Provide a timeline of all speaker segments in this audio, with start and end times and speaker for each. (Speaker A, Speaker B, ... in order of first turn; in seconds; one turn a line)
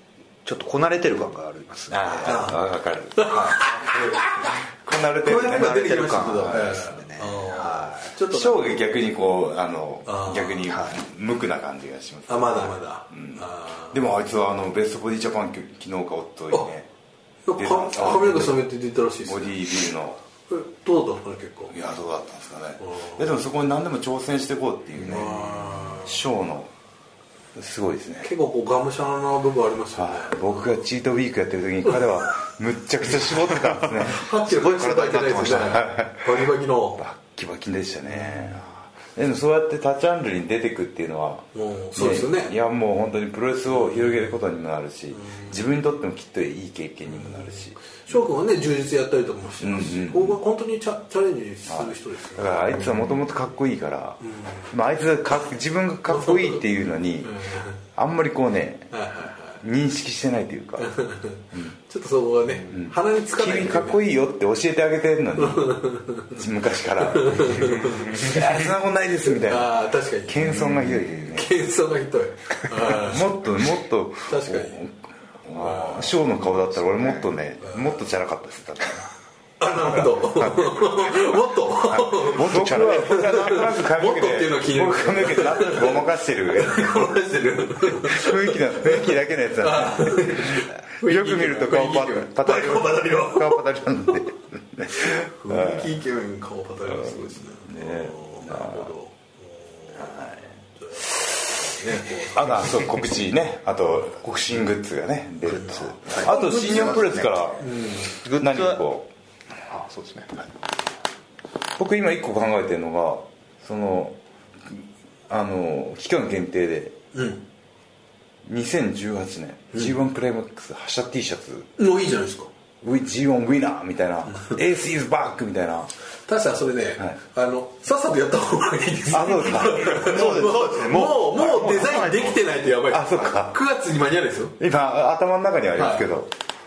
Speaker A: 0.4-2.5
Speaker B: 1.9-6.6
Speaker C: 2.2-2.6
Speaker C: 3.1-4.4
Speaker A: 3.2-3.6
Speaker C: 5.2-8.8
Speaker A: 5.3-8.1
Speaker B: 8.3-16.9
Speaker C: 10.1-10.6
Speaker A: 10.7-11.0
Speaker C: 12.3-13.9
Speaker C: 17.5-19.9
Speaker B: 17.6-18.6
Speaker B: 19.2-20.2
Speaker C: 20.5-21.7
Speaker B: 21.7-26.7
Speaker C: 22.8-23.2
Speaker C: 25.0-26.2
Speaker B: 27.6-28.3
Speaker C: 28.2-30.8
Speaker B: 29.9-34.2
Speaker C: 33.8-37.0
Speaker A: 34.4-35.8
Speaker B: 35.6-36.3
Speaker B: 37.0-48.3
Speaker A: 38.1-38.6
Speaker C: 41.5-42.5
Speaker C: 43.7-44.4
Speaker C: 45.1-45.6
Speaker C: 47.1-53.0
Speaker B: 49.6-50.4
Speaker B: 51.7-57.4
Speaker C: 54.2-54.7
Speaker C: 56.1-56.6
Speaker C: 57.2-57.8
Speaker B: 58.0-59.0
Speaker C: 58.9-59.6
Speaker B: 59.6-61.0
Speaker C: 60.8-64.0
Speaker B: 61.5-61.8
Speaker B: 62.7-71.5
Speaker C: 65.4-66.4
Speaker C: 67.0-68.5
Speaker A: 68.1-68.6
Speaker C: 69.3-70.7
Speaker A: 70.7-71.1
Speaker C: 71.3-73.4
Speaker B: 72.7-79.1
Speaker C: 74.2-74.8
Speaker A: 75.6-77.3
Speaker C: 75.6-76.0
Speaker C: 79.6-93.6
Speaker B: 79.8-81.1
Speaker B: 81.9-87.1
Speaker A: 82.4-83.1
Speaker B: 87.8-96.0
Speaker C: 94.9-103.0
Speaker B: 96.9-98.9
Speaker B: 100.0-100.4
Speaker B: 102.1-109.0
Speaker A: 105.4-107.5
Speaker C: 105.6-107.0
Speaker C: 107.6-108.2
Speaker A: 108.1-108.8
Speaker A: 109.6-110.5
Speaker B: 111.8-114.2
Speaker B: 114.7-117.0
Speaker C: 117.1-117.4
Speaker B: 118.5-121.7
Speaker C: 121.8-122.5
Speaker B: 122.8-125.9
Speaker C: 124.3-124.5
Speaker C: 126.3-134.6
Speaker B: 129.1-130.6
Speaker A: 129.9-132.4
Speaker B: 132.9-133.6
Speaker B: 134.6-136.3
Speaker C: 135.8-136.1